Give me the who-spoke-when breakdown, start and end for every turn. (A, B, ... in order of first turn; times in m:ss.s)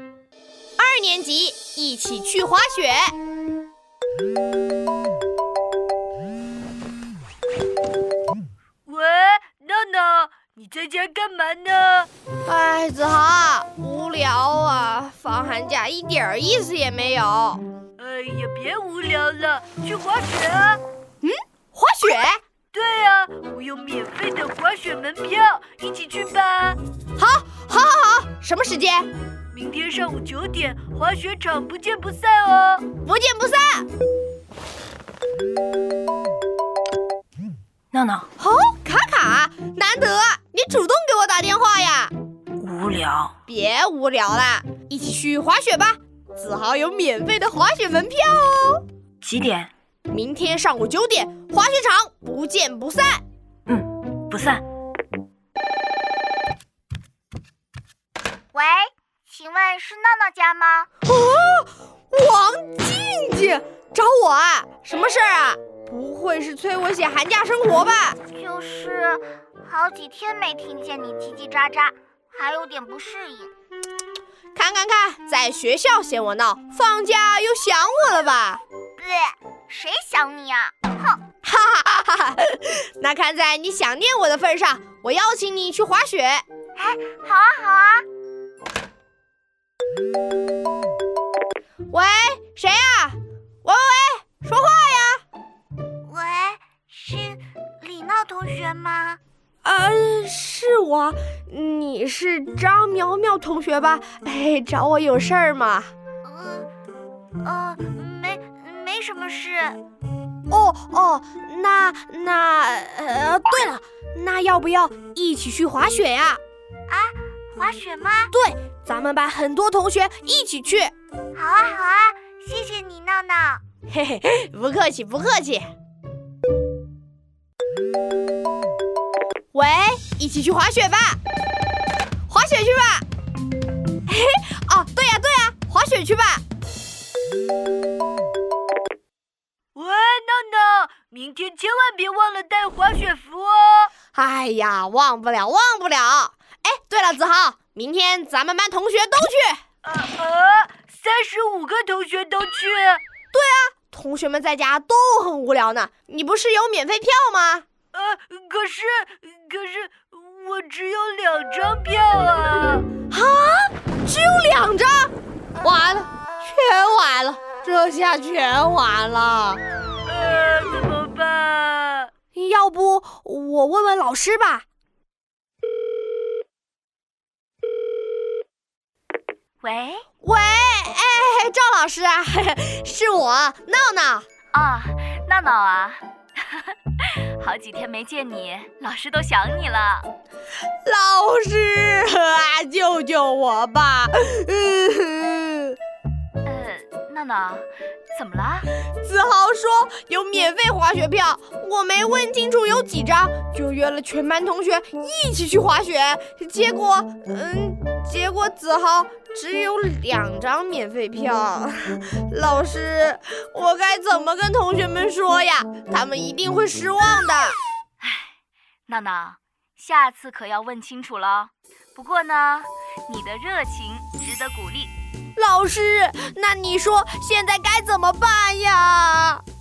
0:00.8-0:03.1 A
0:08.8-0:12.1 B
0:12.4-0:17.6 A
0:18.0-0:20.8 B
0:21.2-0:22.4 A
0:22.7-0:26.8 B
0:27.2-0:29.1 A
0:29.5-0:32.8 B
0:33.0-0:33.9 A
0:37.9-0:38.3 C
0:38.4-0:42.1 A
0:42.6-0:43.3 C
0:43.5-0:48.8 A
0:49.2-0:49.7 C
0:50.1-0:53.2 A
0:53.7-0:54.6 C
0:58.5-1:00.9 D
1:01.0-1:08.2 A
1:08.3-1:13.5 D
1:14.5-1:18.6 A
1:19.0-1:21.2 D
1:21.4-1:26.4 A
1:26.8-1:28.0 D
1:31.9-1:35.2 A
1:36.0-1:39.2 D
1:39.6-1:45.9 A
1:46.2-1:46.7 D
1:47.4-1:49.8 D
1:50.5-1:56.4 A
1:56.9-1:58.3 D
1:58.3-2:00.9 A
2:01.3-2:03.6 D
2:03.9-2:05.7 A
2:09.5-2:11.2 A
2:12.3-2:13.0 A
2:14.0-2:16.4 A
2:19.7-2:23.9 B
2:24.1-2:29.6 A
2:29.8-2:33.0 B
2:33.3-2:37.6 A
2:37.9-2:42.9 B
2:43.1-2:49.6 A
2:50.0-2:52.1 B
2:52.3-2:54.6 A
2:59.6-3:00.0 E
3:00.2-3:04.2 A
3:04.5-3:10.1 E
3:10.8-3:15.8 A
3:16.4-3:18.7 E
3:19.0-3:37.6 A
3:38.0-3:38.3 E
3:38.9-3:44.9 E
3:45.4-3:49.4 A